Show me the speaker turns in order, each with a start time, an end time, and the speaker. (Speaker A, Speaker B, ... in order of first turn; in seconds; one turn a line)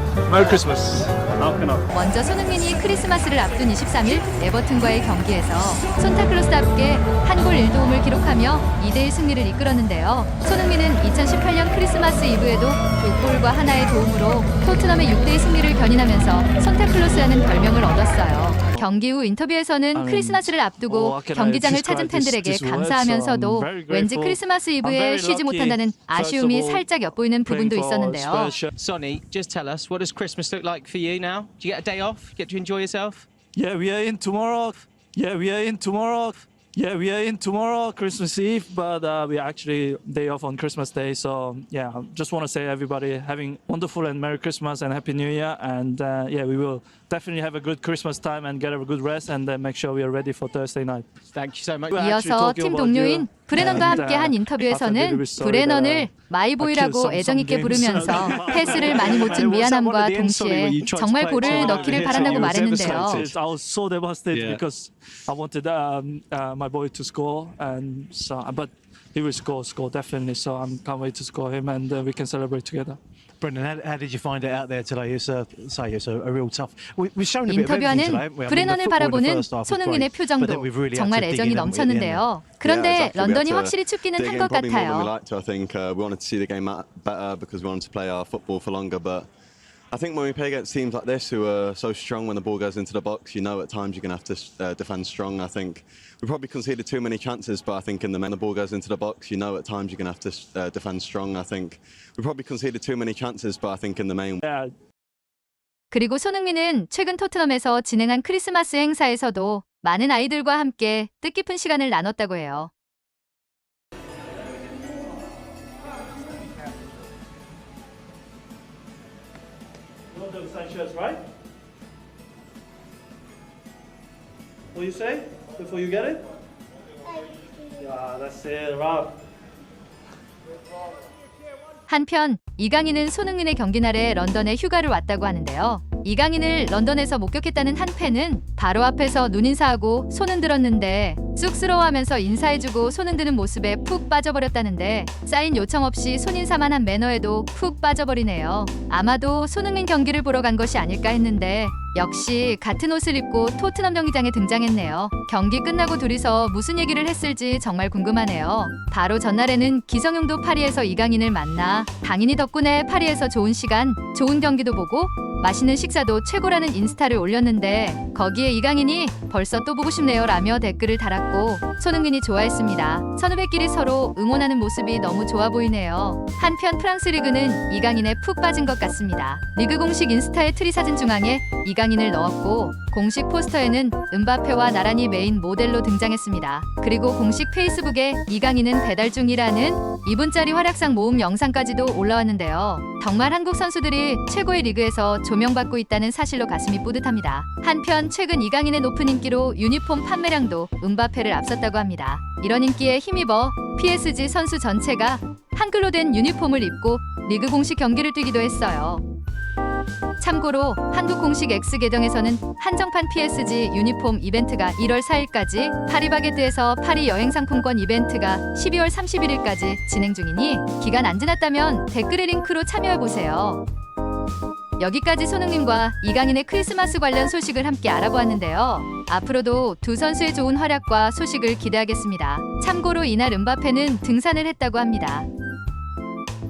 Speaker A: 0.3-1.3
Speaker B: 1.9-28.6
Speaker A: 19.9-26.9
Speaker A: 27.5-28.7
Speaker C: 28.8-33.3
Speaker A: 33.5-51.1
Speaker C: 51.3-52.0
Speaker A: 51.9-59.7
Speaker B: 52.0-63.2
Speaker D: 53.6-54.0
Speaker D: 58.2-63.2
Speaker A: 61.4-73.0
Speaker C: 61.5-61.9
Speaker E: 63.0-63.4
Speaker E: 64.3-64.6
Speaker D: 73.4-82.3
Speaker B: 77.5-85.1
Speaker E: 82.6-89.3
Speaker E: 89.9-104.4
Speaker A: 104.4-104.7
Speaker B: 105.9-112.7
Speaker A: 120.1-121.2
Speaker A: 124.7-126.2
Speaker A: 127.8-129.1
Speaker B: 131.9-209.0
Speaker B: 210.2-223.6
Speaker B: 224.8-235.3